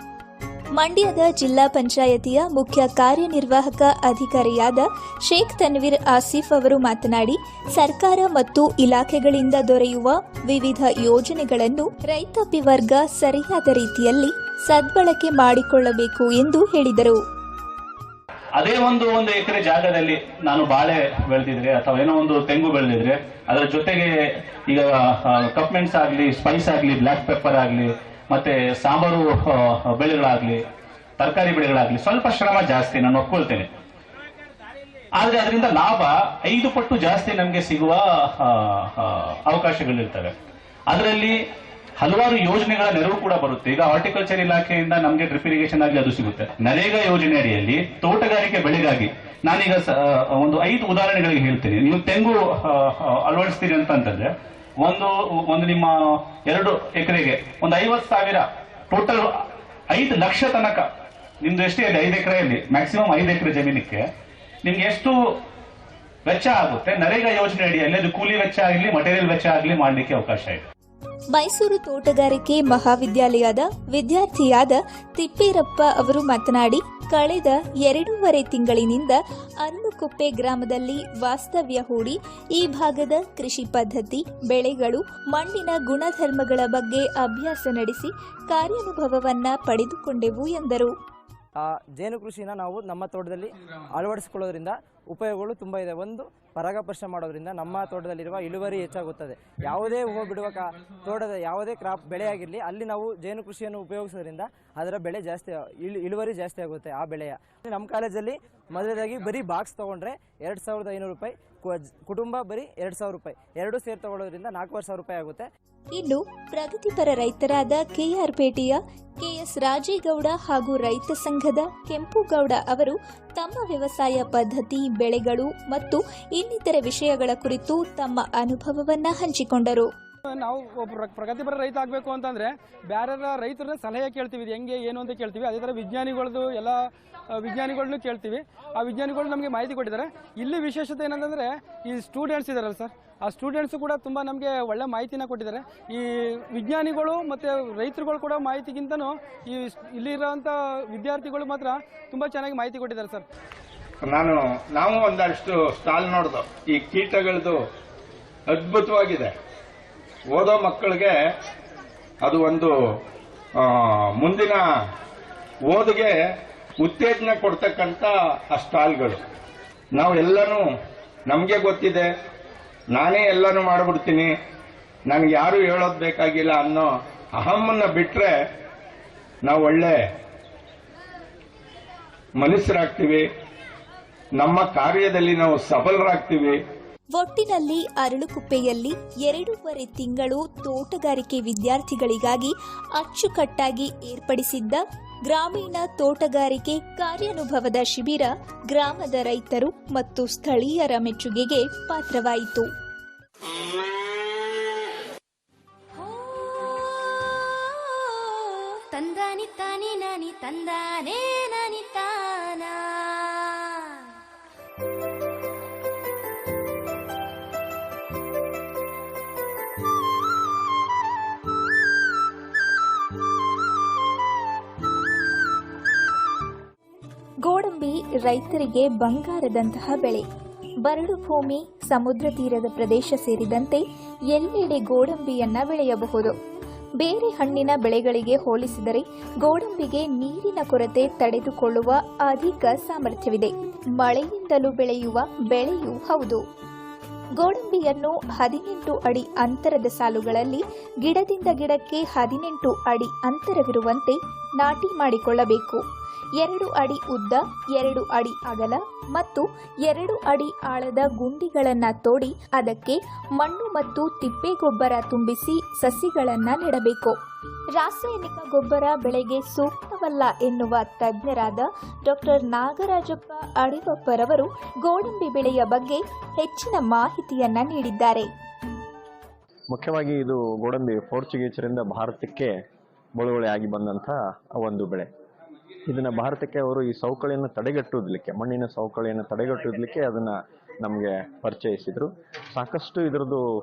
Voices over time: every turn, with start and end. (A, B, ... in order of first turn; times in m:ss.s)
0:00.8-0:17.2 A
0:18.6-0:24.1 B
0:24.7-0:30.6 B
0:31.2-0:33.7 B
0:35.2-0:40.3 B
0:40.9-0:41.4 B
0:42.0-0:54.3 B
0:54.8-0:55.9 B
0:56.5-0:59.3 B
0:59.9-1:00.9 B
1:01.4-1:04.0 B
1:04.6-1:05.2 B
1:06.2-1:10.6 B
1:11.3-1:30.9 A
1:31.6-1:55.5 C
1:56.0-2:09.9 A
2:10.3-2:16.8 D
2:17.4-2:33.2 D
2:34.1-2:37.6 E
2:38.5-2:39.3 E
2:40.3-2:41.2 E
2:42.2-2:42.7 E
2:43.6-2:44.6 E
2:45.7-2:46.2 E
2:46.8-2:49.2 E
2:50.0-2:50.7 E
2:51.3-2:52.1 E
2:52.9-2:54.3 E
2:55.1-2:58.3 E
2:59.4-3:00.0 E
3:02.4-3:03.3 E
3:04.4-3:06.6 E
3:07.2-3:22.7 A
3:26.0-3:33.9 F
3:47.4-3:50.3 A
3:50.8-3:56.4 A
3:57.0-4:06.4 A
4:07.4-4:15.8 A
4:16.4-4:27.2 A
4:27.8-4:38.3 A
4:39.7-4:42.5 G
4:43.2-4:45.1 G
4:45.9-4:53.4 G